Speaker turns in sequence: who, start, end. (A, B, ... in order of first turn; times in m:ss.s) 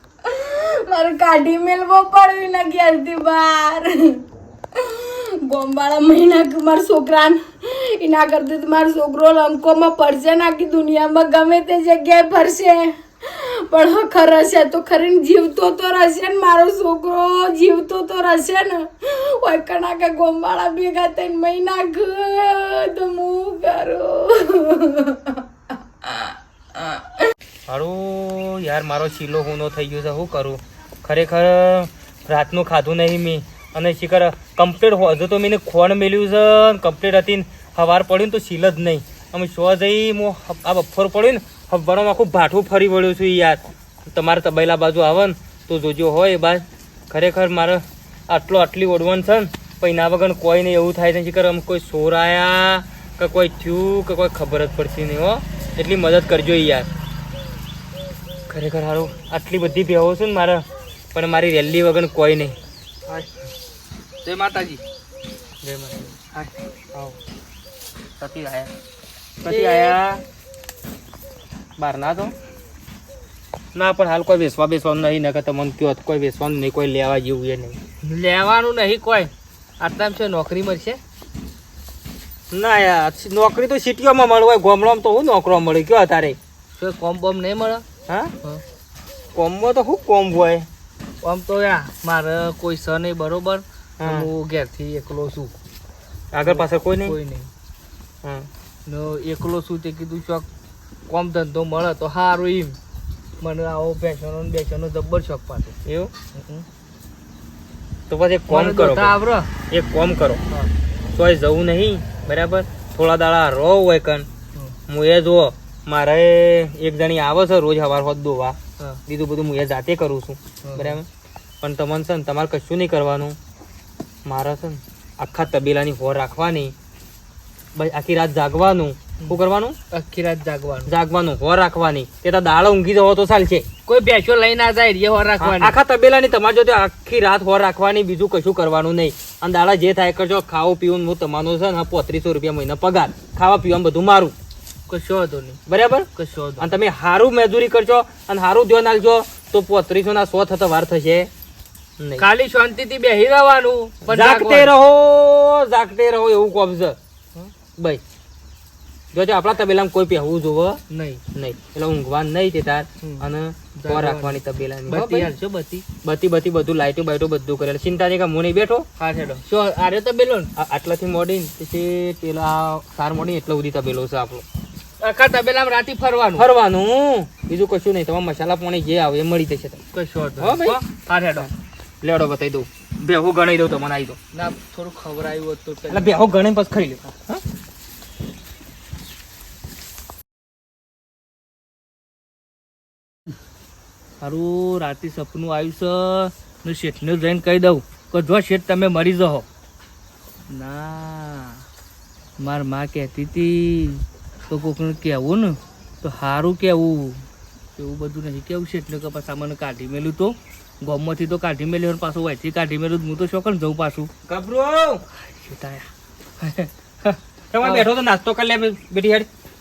0:00.2-0:04.2 A
0:04.8-0:25.4 A
0:27.7-0:56.9 B
0:58.5-1:02.6 B
1:04.2-1:04.8 C
1:05.6-1:07.2 B
1:08.2-1:08.7 B
1:09.4-1:10.1 B
1:09.4-1:10.2 C
1:11.8-1:12.3 B
1:13.7-1:17.8 B
1:18.0-1:21.0 C
1:22.5-1:26.4 B
1:26.8-1:27.8 C
1:29.3-1:30.7 B
1:31.2-1:35.5 C
1:34.0-1:34.3 B
1:36.3-1:37.1 B
1:36.4-1:37.5 C
1:38.2-1:38.5 B
1:38.9-1:40.5 C
1:41.1-1:42.8 C
1:43.4-1:45.7 C
1:45.8-1:46.1 B
1:46.3-1:46.6 C
1:48.1-1:49.2 B
1:48.5-1:49.5 C
1:49.7-1:50.4 B
1:51.1-1:54.3 B
1:54.9-1:58.6 B
1:59.1-2:01.0 B
2:00.6-2:01.0 C
2:01.6-2:03.4 B
2:04.2-2:06.7 B
2:07.8-2:09.8 B
2:09.9-2:10.9 C
2:10.8-2:13.6 B
2:13.9-2:15.7 C
2:15.4-2:24.3 B
2:24.9-2:25.6 C
2:25.7-2:26.1 B
2:26.2-2:26.7 C
2:26.6-2:31.3 B
2:32.0-2:32.2 B
2:32.2-2:34.7 C
2:34.0-2:37.0 B
2:39.1-2:40.8 B
2:40.9-2:41.2 C
2:41.3-2:45.3 B
2:43.8-2:45.8 C
2:46.0-2:48.8 B
2:49.0-2:50.5 C
2:50.6-2:54.4 B
2:55.0-2:56.5 C
2:56.4-2:59.8 B
2:59.9-3:01.5 C
3:00.4-3:00.8 B
3:02.0-3:04.2 B
3:04.3-3:06.2 C
3:05.9-3:07.4 B
3:14.2-3:19.4 C
3:20.5-3:21.6 C
3:22.4-3:27.2 C
3:27.8-3:34.1 C
3:34.3-3:35.0 B
3:35.2-3:35.9 C
3:36.4-3:37.9 C
3:37.5-3:39.3 B